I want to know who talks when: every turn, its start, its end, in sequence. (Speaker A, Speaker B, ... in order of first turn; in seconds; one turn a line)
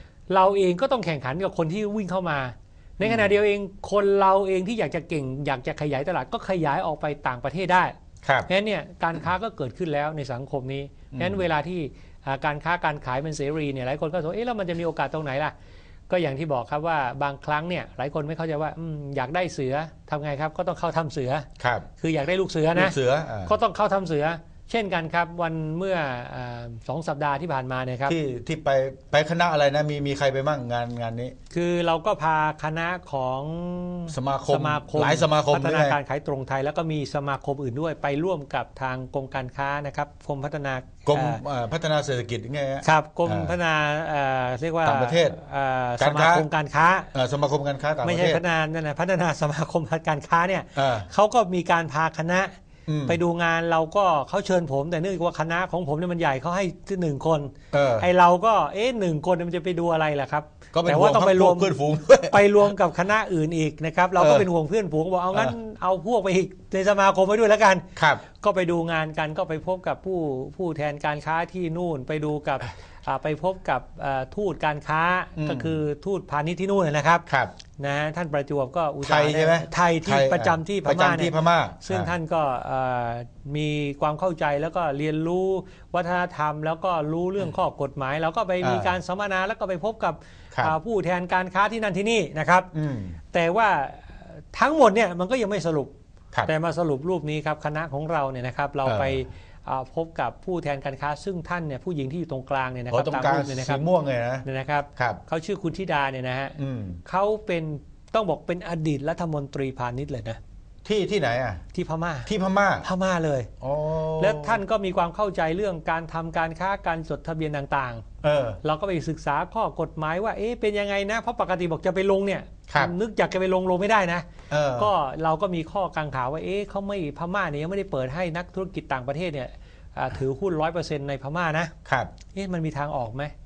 Speaker A: 0.3-7.9
Speaker B: 3.0-3.3
Speaker B: 8.2-8.5
Speaker A: 8.5-15.5
Speaker B: 11.1-11.5
Speaker A: 16.1-21.5
Speaker B: 21.6-21.9
Speaker A: 22.0-28.1
Speaker B: 22.7-23.5
Speaker B: 28.1-31.4
Speaker A: 31.5-41.4
Speaker B: 34.1-36.0
Speaker B: 41.1-43.6
Speaker A: 42.8-47.1
Speaker B: 44.8-45.4
Speaker B: 46.0-46.5
Speaker B: 47.1-48.4
Speaker A: 48.0-52.5
Speaker B: 50.8-51.1
Speaker B: 52.9-53.2
Speaker A: 53.1-61.7
Speaker B: 57.7-58.1
Speaker B: 60.7-62.7
Speaker A: 62.2-77.2
Speaker B: 64.2-64.5
Speaker B: 68.0-68.2
Speaker B: 75.4-75.8
Speaker B: 77.3-77.5
Speaker A: 77.8-92.7
Speaker B: 79.0-82.1
Speaker B: 88.6-89.0
Speaker B: 92.7-93.2
Speaker A: 93.3-95.9
Speaker A: 96.5-103.8
Speaker B: 98.9-99.2
Speaker B: 102.9-104.5
Speaker A: 104.4-110.4
Speaker B: 106.6-107.0
Speaker B: 110.8-111.6
Speaker A: 111.7-112.3
Speaker B: 112.3-112.9
Speaker A: 112.8-113.5
Speaker B: 113.6-114.6
Speaker A: 114.2-118.0
Speaker B: 118.2-118.6
Speaker A: 118.6-131.7
Speaker B: 124.5-124.9
Speaker B: 131.9-132.1
Speaker A: 132.3-133.3